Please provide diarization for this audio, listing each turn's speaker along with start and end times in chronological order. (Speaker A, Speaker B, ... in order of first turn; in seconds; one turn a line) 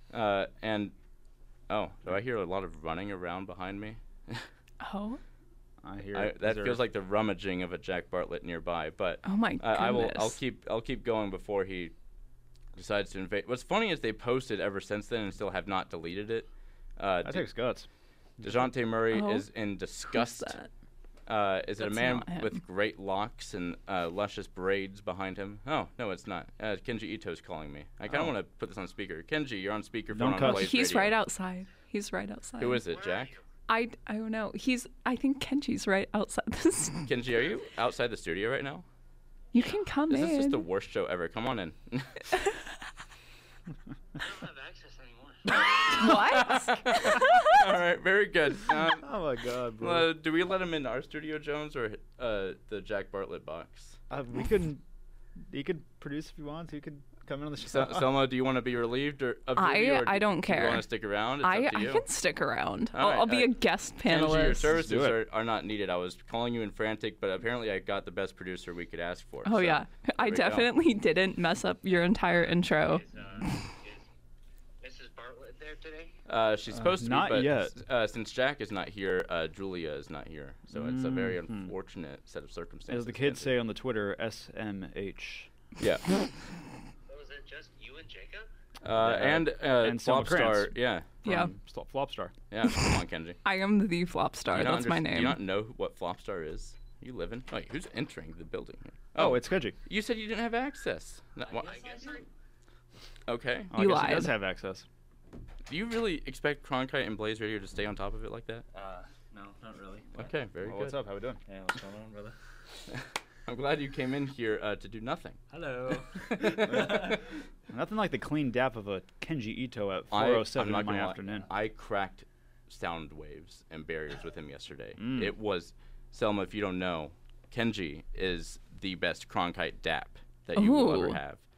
Speaker A: 0.1-0.9
Speaker A: 1.7-4.5
Speaker B: 4.8-5.2
Speaker C: 5.8-6.8
Speaker A: 6.1-11.9
Speaker B: 9.2-10.4
Speaker A: 12.8-17.5
Speaker C: 17.2-17.9
Speaker C: 18.4-18.7
Speaker A: 18.4-20.6
Speaker B: 19.1-19.5
Speaker B: 20.1-20.7
Speaker A: 21.3-31.1
Speaker B: 21.8-22.6
Speaker C: 30.1-30.8
Speaker B: 30.4-32.9
Speaker A: 32.6-33.3
Speaker D: 32.9-33.4
Speaker B: 33.7-37.1
Speaker A: 37.0-38.8
Speaker B: 39.5-40.6
Speaker A: 39.6-42.4
Speaker D: 44.2-45.5
Speaker B: 45.5-47.8
Speaker A: 45.5-49.1
Speaker C: 49.0-50.1
Speaker A: 49.8-54.0
Speaker C: 54.1-54.8
Speaker C: 55.5-58.1
Speaker A: 57.6-62.1
Speaker B: 59.5-60.9
Speaker B: 61.4-64.7
Speaker A: 62.9-70.7
Speaker C: 64.7-65.2
Speaker B: 69.4-73.0
Speaker D: 72.9-74.0
Speaker D: 74.8-76.1
Speaker A: 76.3-83.5
Speaker C: 76.7-77.7
Speaker C: 80.7-81.7
Speaker C: 82.9-85.5
Speaker A: 85.8-86.1
Speaker D: 87.1-88.5
Speaker A: 88.8-91.5
Speaker C: 88.9-90.7
Speaker B: 91.2-91.5
Speaker C: 91.2-92.3
Speaker A: 92.5-93.4
Speaker B: 92.7-92.9
Speaker B: 93.4-95.4
Speaker A: 94.5-101.8
Speaker C: 99.2-99.8
Speaker E: 101.5-101.8
Speaker D: 101.7-102.2
Speaker A: 103.3-103.7
Speaker C: 103.7-104.8
Speaker B: 103.7-104.3
Speaker A: 105.7-108.7
Speaker E: 108.7-110.0
Speaker A: 110.1-111.0
Speaker C: 110.6-111.4
Speaker E: 111.5-112.3
Speaker A: 113.5-115.4
Speaker E: 115.5-116.2
Speaker A: 116.0-117.2
Speaker C: 116.5-117.2
Speaker E: 116.8-117.2
Speaker C: 117.7-121.5
Speaker A: 120.1-131.4
Speaker C: 125.0-125.3
Speaker B: 130.5-131.2